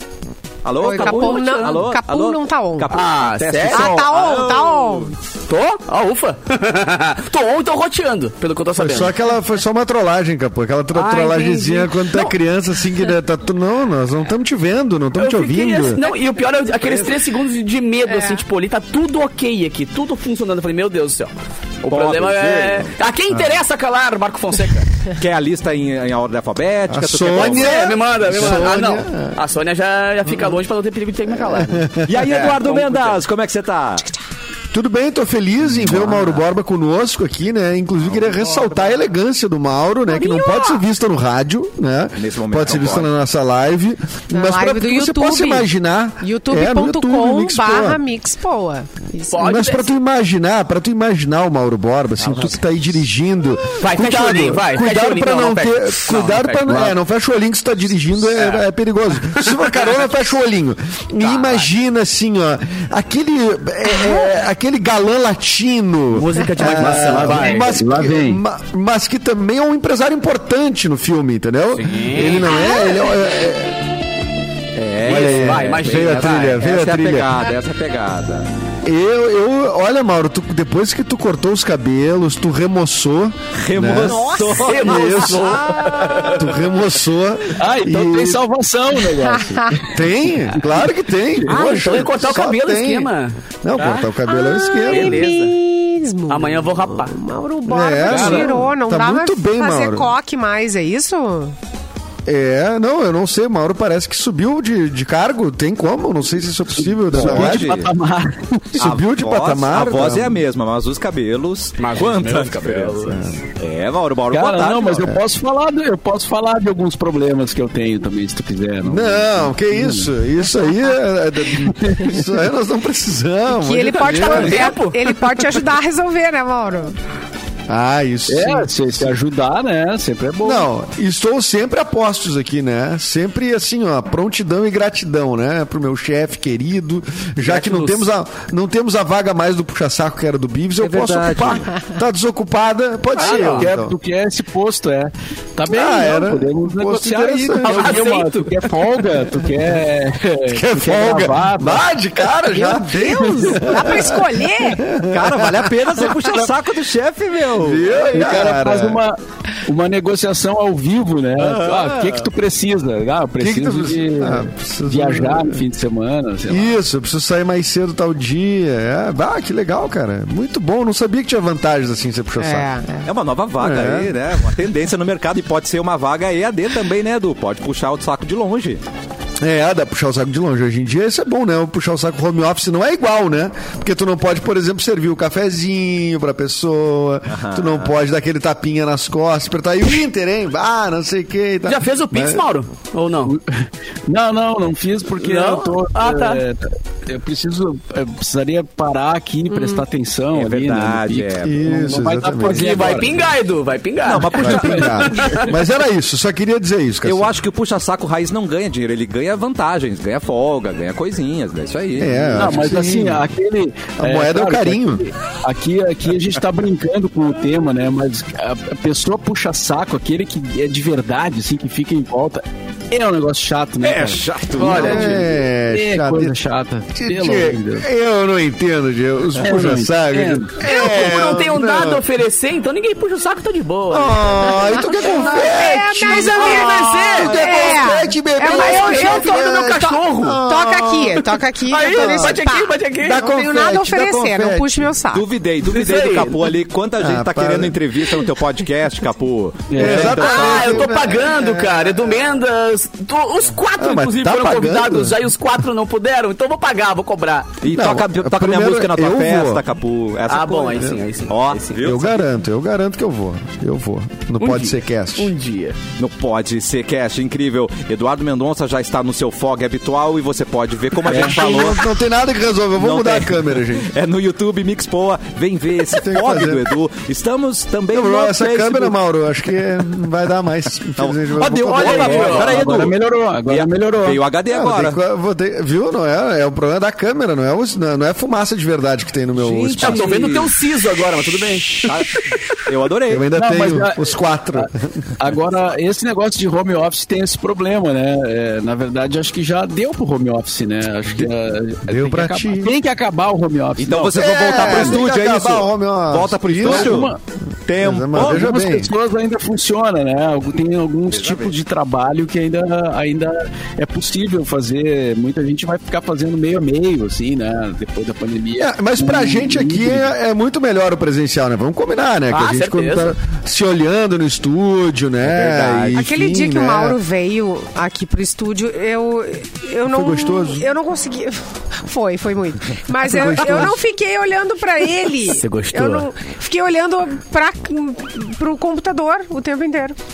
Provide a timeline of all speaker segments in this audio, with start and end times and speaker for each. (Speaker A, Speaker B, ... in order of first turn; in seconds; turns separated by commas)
Speaker A: 0.6-5.1, Speaker B: 0.8-2.9, Speaker C: 0.9-1.8, Speaker C: 2.9-4.0, Speaker B: 3.7-5.1, Speaker C: 5.5-9.1, Speaker D: 8.7-16.0, Speaker C: 10.9-12.3, Speaker C: 15.2-21.3, Speaker A: 16.7-17.1, Speaker B: 18.1-18.4, Speaker A: 21.8-22.9, Speaker C: 21.9-25.0, Speaker A: 25.1-27.8, Speaker D: 26.9-29.4, Speaker C: 27.3-33.2, Speaker A: 28.3-28.6, Speaker D: 31.3-32.1, Speaker A: 32.1-34.1, Speaker D: 34.7-48.0, Speaker A: 35.7-36.4, Speaker A: 38.0-38.7, Speaker B: 40.1-40.8, Speaker A: 42.2-43.1, Speaker B: 44.3-45.7, Speaker B: 46.2-49.7, Speaker C: 49.3-49.9, Speaker D: 49.4-73.8, Speaker A: 52.2-52.5, Speaker C: 53.8-56.9, Speaker C: 58.3-58.6, Speaker C: 59.2-60.0, Speaker C: 61.2-61.7, Speaker C: 66.1-67.7, Speaker E: 66.6-68.4, Speaker C: 71.7-72.5, Speaker B: 72.3-73.3, Speaker A: 74.7-78.5, Speaker C: 75.0-76.6, Speaker D: 75.0-77.3, Speaker D: 78.8-84.2, Speaker A: 83.5-86.3, Speaker B: 83.9-85.3, Speaker C: 84.5-86.5, Speaker D: 84.7-85.6, Speaker D: 86.2-88.4, Speaker E: 87.5-91.6, Speaker B: 89.3-89.8, Speaker D: 89.9-93.1, Speaker C: 91.5-94.1, Speaker D: 93.6-95.2, Speaker B: 94.3-101.5, Speaker C: 94.9-95.5, Speaker C: 96.3-97.1, Speaker D: 97.7-100.1, Speaker E: 98.1-98.7, Speaker C: 98.1-98.4, Speaker D: 102.2-107.8, Speaker E: 106.8-108.9, Speaker A: 107.1-107.9, Speaker D: 108.8-110.4, Speaker A: 108.8-115.1, Speaker C: 111.8-113.2, Speaker D: 113.1-113.4, Speaker E: 114.3-120.1, Speaker D: 118.8-124.7, Speaker E: 121.5-122.2, Speaker B: 123.6-126.9, Speaker C: 124.1-125.5, Speaker D: 127.7-129.2, Speaker E: 128.3-130.7, Speaker D: 130.4-143.9, Speaker C: 137.4-138.1, Speaker A: 140.8-141.7, Speaker C: 143.2-143.7, Speaker E: 143.2-151.8, Speaker D: 145.7-148.0, Speaker C: 147.6-148.8, Speaker D: 150.4-156.1, Speaker B: 152.5-154.8, Speaker A: 155.1-158.1, Speaker D: 157.6-159.0, Speaker E: 158.1-166.8, Speaker A: 161.4-162.3, Speaker D: 163.4-165.6, Speaker D: 166.5-172.7, Speaker B: 172.4-173.1, Speaker A: 173.0-178.8, Speaker D: 173.6-174.2, Speaker D: 179.4-192.5, Speaker A: 187.3-187.9, Speaker C: 191.7-193.3, Speaker E: 193.2-203.3, Speaker C: 195.2-196.4, Speaker B: 199.5-199.8, Speaker A: 200.3-201.6, Speaker D: 201.4-203.0, Speaker C: 202.3-205.6, Speaker A: 204.0-205.1, Speaker D: 204.3-207.3, Speaker A: 207.0-212.6, Speaker D: 212.0-213.3, Speaker E: 212.3-227.8, Speaker D: 214.0-215.0, Speaker A: 223.8-225.1, Speaker C: 224.6-225.3, Speaker D: 224.8-226.4, Speaker D: 226.9-232.0, Speaker E: 229.4-230.5, Speaker C: 230.6-240.4, Speaker D: 233.9-241.2, Speaker B: 234.7-245.2, Speaker C: 241.7-243.2, Speaker D: 241.8-242.4, Speaker D: 243.0-244.9, Speaker A: 245.1-250.9, Speaker C: 245.6-246.4, Speaker D: 247.0-247.8, Speaker E: 249.7-250.2, Speaker D: 249.8-252.1, Speaker C: 250.0-257.6, Speaker D: 253.8-255.3, Speaker A: 257.6-262.2, Speaker D: 257.6-259.6, Speaker C: 260.3-261.8, Speaker D: 261.8-265.3, Speaker C: 264.4-265.8, Speaker A: 266.0-271.9, Speaker D: 271.0-273.9, Speaker A: 272.8-278.9, Speaker D: 275.9-276.6, Speaker D: 277.9-282.4, Speaker A: 281.0-285.0, Speaker C: 281.4-282.6, Speaker E: 281.8-284.2, Speaker D: 284.5-290.3, Speaker A: 289.4-290.5, Speaker C: 289.8-292.6, Speaker A: 291.8-293.3, Speaker D: 293.1-294.9, Speaker E: 293.3-305.0, Speaker D: 301.8-302.7, Speaker A: 303.8-307.1, Speaker D: 304.1-307.1, Speaker E: 306.6-307.2, Speaker A: 307.6-308.6, Speaker D: 307.8-308.9, Speaker E: 308.1-320.1, Speaker A: 311.1-311.5, Speaker D: 318.5-327.0, Speaker C: 322.3-323.1, Speaker A: 325.2-326.1, Speaker B: 325.9-339.9, Speaker D: 329.9-330.6, Speaker D: 333.0-333.8, Speaker C: 335.3-336.1